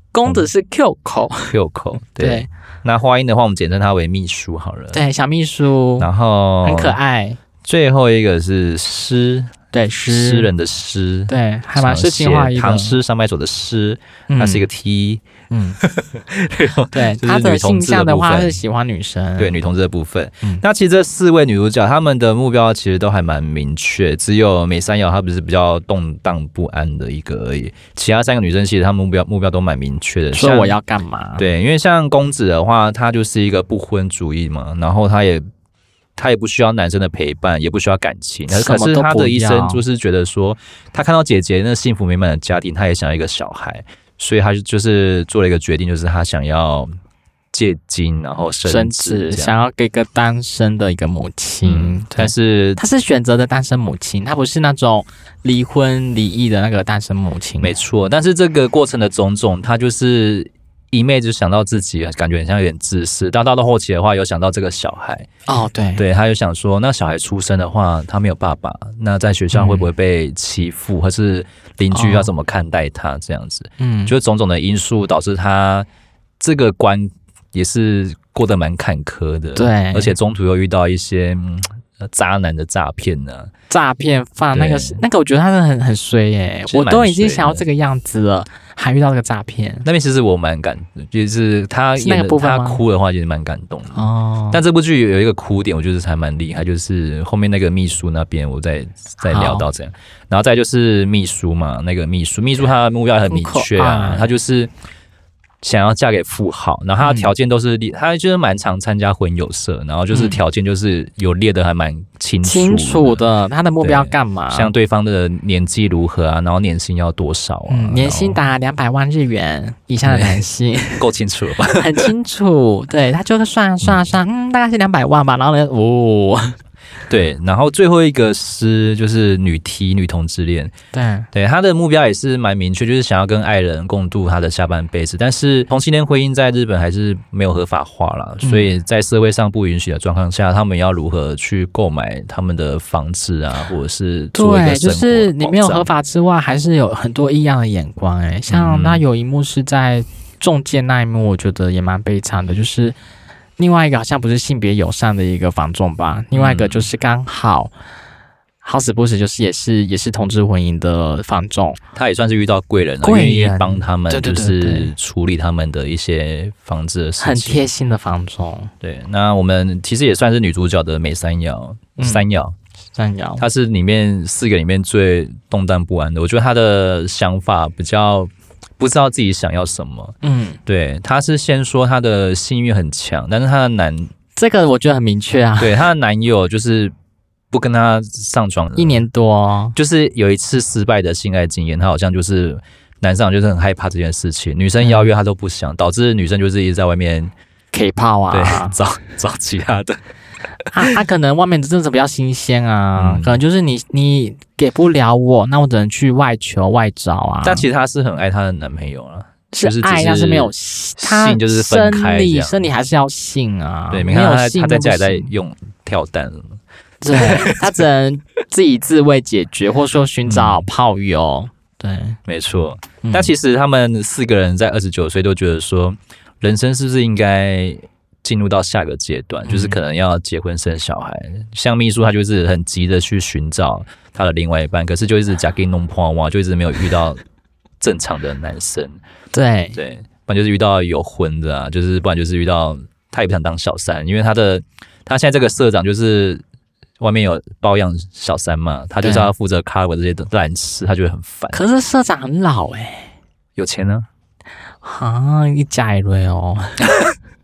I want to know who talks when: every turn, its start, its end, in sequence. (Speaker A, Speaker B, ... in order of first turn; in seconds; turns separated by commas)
Speaker A: 0.1-1.6, Speaker B: 1.5-5.0, Speaker A: 2.2-2.5, Speaker A: 4.9-6.1, Speaker B: 6.0-7.0, Speaker A: 6.6-7.4, Speaker B: 7.6-9.5, Speaker A: 9.7-10.5, Speaker B: 10.1-15.2, Speaker A: 11.3-13.0, Speaker A: 14.3-14.7, Speaker A: 15.5-15.8, Speaker B: 15.8-18.6, Speaker A: 16.9-19.6, Speaker B: 19.4-30.8, Speaker A: 30.3-31.4, Speaker B: 31.4-35.4, Speaker B: 36.1-46.9, Speaker A: 38.5-39.8, Speaker B: 47.5-49.5, Speaker A: 48.6-57.8, Speaker B: 51.6-52.8, Speaker B: 57.6-65.3, Speaker A: 65.5-66.0, Speaker B: 66.0-75.9, Speaker A: 69.5-69.9, Speaker A: 71.9-72.3, Speaker A: 73.8-74.1, Speaker B: 76.4-83.5, Speaker A: 79.6-80.1, Speaker A: 83.7-89.8, Speaker B: 84.5-85.0, Speaker B: 86.7-87.6, Speaker B: 89.8-104.7, Speaker A: 92.0-92.8, Speaker A: 93.9-94.6, Speaker A: 99.2-99.7, Speaker A: 103.3-104.3, Speaker B: 105.6-113.2, Speaker A: 107.0-107.3, Speaker A: 110.1-110.4, Speaker A: 112.4-114.7, Speaker B: 113.8-118.4, Speaker A: 117.7-121.0, Speaker B: 120.0-120.4, Speaker B: 121.0-122.1, Speaker A: 121.7-126.6, Speaker B: 127.1-130.7, Speaker A: 130.9-131.3, Speaker B: 131.3-145.9, Speaker A: 138.4-138.7, Speaker A: 144.3-152.9, Speaker B: 148.5-149.0, Speaker A: 153.6-157.7, Speaker B: 156.3-156.9, Speaker A: 158.6-161.8, Speaker B: 161.9-167.6, Speaker A: 163.0-164.9, Speaker A: 167.2-168.7, Speaker B: 168.8-172.6, Speaker A: 172.0-172.3, Speaker A: 172.9-173.4, Speaker B: 173.4-184.1, Speaker A: 180.2-180.6, Speaker A: 184.4-185.9, Speaker B: 185.6-186.9, Speaker B: 187.5-189.0, Speaker A: 188.8-189.8, Speaker B: 189.8-197.3, Speaker A: 194.8-195.1, Speaker A: 197.7-198.8, Speaker B: 198.3-200.0, Speaker A: 200.7-207.7, Speaker B: 203.0-203.4, Speaker B: 207.4-212.6, Speaker A: 209.5-215.3, Speaker B: 213.9-216.6, Speaker A: 217.0-222.2, Speaker B: 217.1-217.7, Speaker B: 220.3-220.6, Speaker B: 222.3-237.2, Speaker A: 223.0-223.3, Speaker A: 229.4-229.8, Speaker B: 237.8-239.0, Speaker A: 239.3-239.8, Speaker B: 239.8-246.4, Speaker B: 247.0-251.6, Speaker A: 249.0-249.3, Speaker A: 251.5-253.1, Speaker B: 253.6-254.1, Speaker A: 254.8-256.8